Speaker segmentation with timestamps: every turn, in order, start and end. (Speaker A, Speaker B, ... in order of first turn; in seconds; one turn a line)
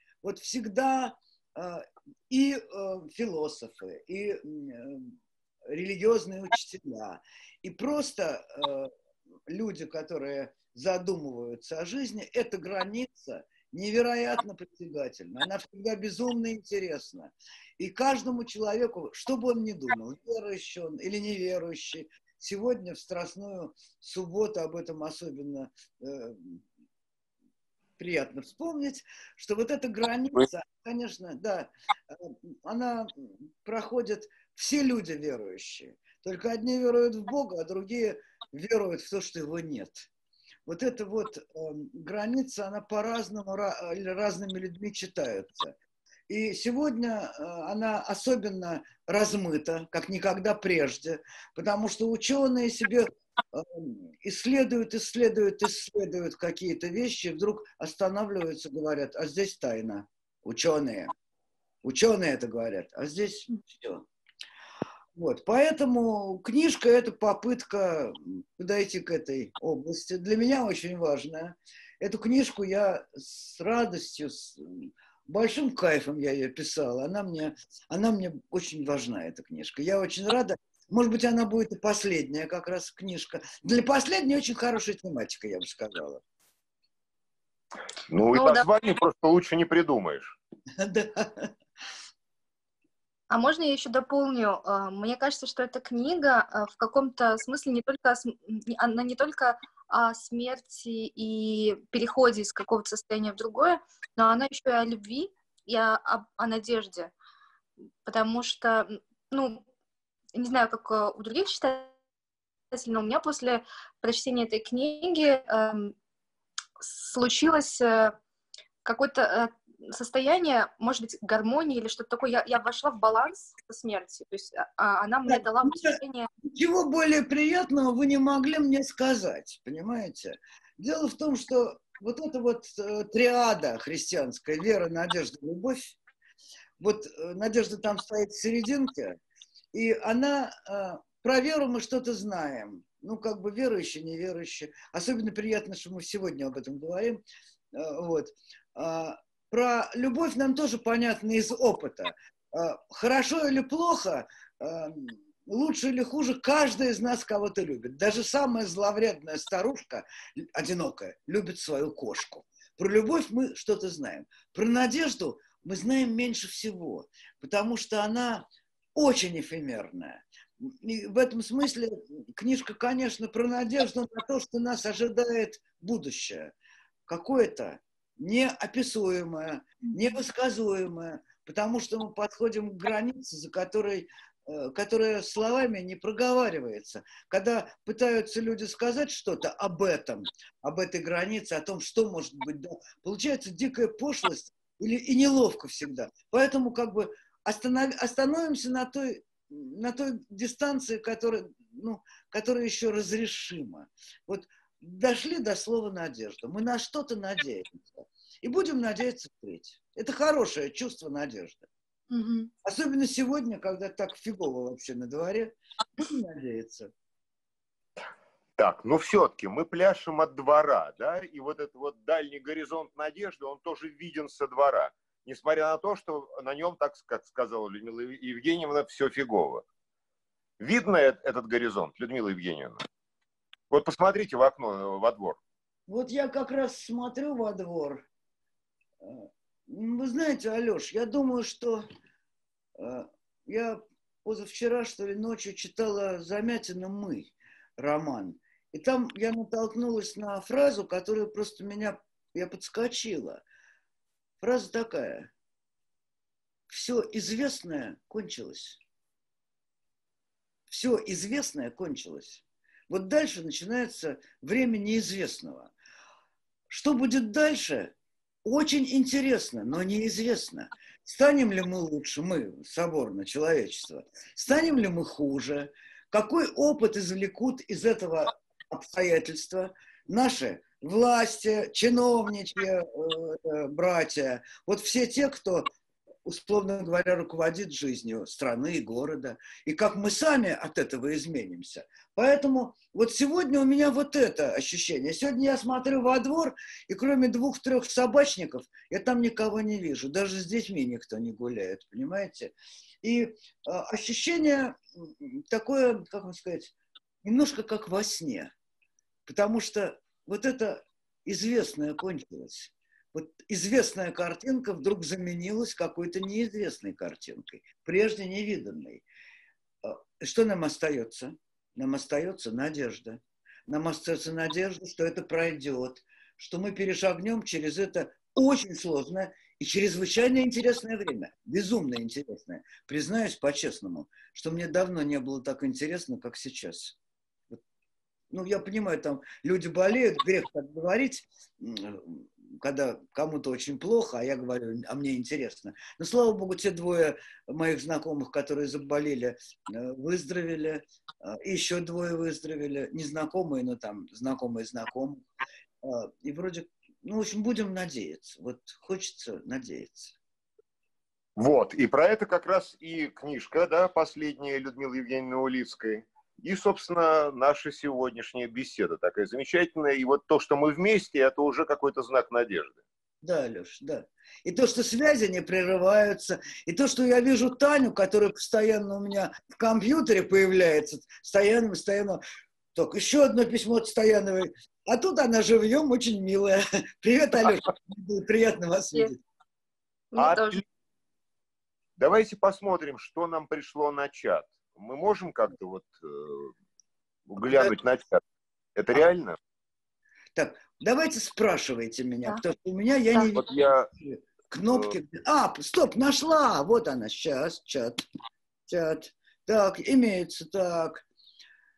Speaker A: 0.2-5.2
Speaker A: 5.7-8.9
Speaker A: 9.5-26.6
Speaker A: 28.0-40.1
Speaker A: 40.7-45.8
Speaker A: 46.3-61.1
Speaker A: 61.8-64.0
Speaker A: 65.2-86.2
Speaker B: 88.1-90.4
Speaker C: 88.3-88.7
Speaker A: 90.8-91.5
Speaker C: 93.3-107.1
Speaker C: 108.0-109.6
Speaker C: 110.3-111.9
Speaker C: 112.7-115.9
Speaker C: 116.8-118.2
Speaker C: 118.8-126.3
Speaker A: 125.3-136.0
Speaker A: 136.8-139.2
Speaker A: 139.7-147.2
Speaker A: 147.7-176.5
Speaker A: 177.1-211.7
Speaker C: 212.1-212.5
Speaker A: 212.7-216.9
Speaker B: 218.6-229.6
Speaker B: 230.6-232.8
Speaker B: 233.7-235.4
Speaker A: 235.9-238.1
Speaker A: 239.0-241.8
Speaker A: 242.8-253.4
Speaker A: 254.4-255.3
Speaker A: 256.7-258.8
Speaker A: 260.7-265.7
Speaker A: 266.7-285.7
Speaker A: 286.2-306.7
Speaker A: 307.2-308.5
Speaker A: 309.3-319.0
Speaker A: 319.8-336.9
Speaker A: 338.3-355.2
Speaker A: 355.8-360.1
Speaker B: 361.4-372.8
Speaker A: 373.2-382.2
Speaker A: 382.7-389.2
Speaker C: 390.1-390.6
Speaker B: 390.2-390.6
Speaker B: 392.0-396.5
Speaker B: 397.3-398.2
Speaker A: 397.5-397.7
Speaker B: 398.8-399.4
Speaker A: 400.4-408.1
Speaker B: 403.3-403.9
Speaker A: 408.7-411.1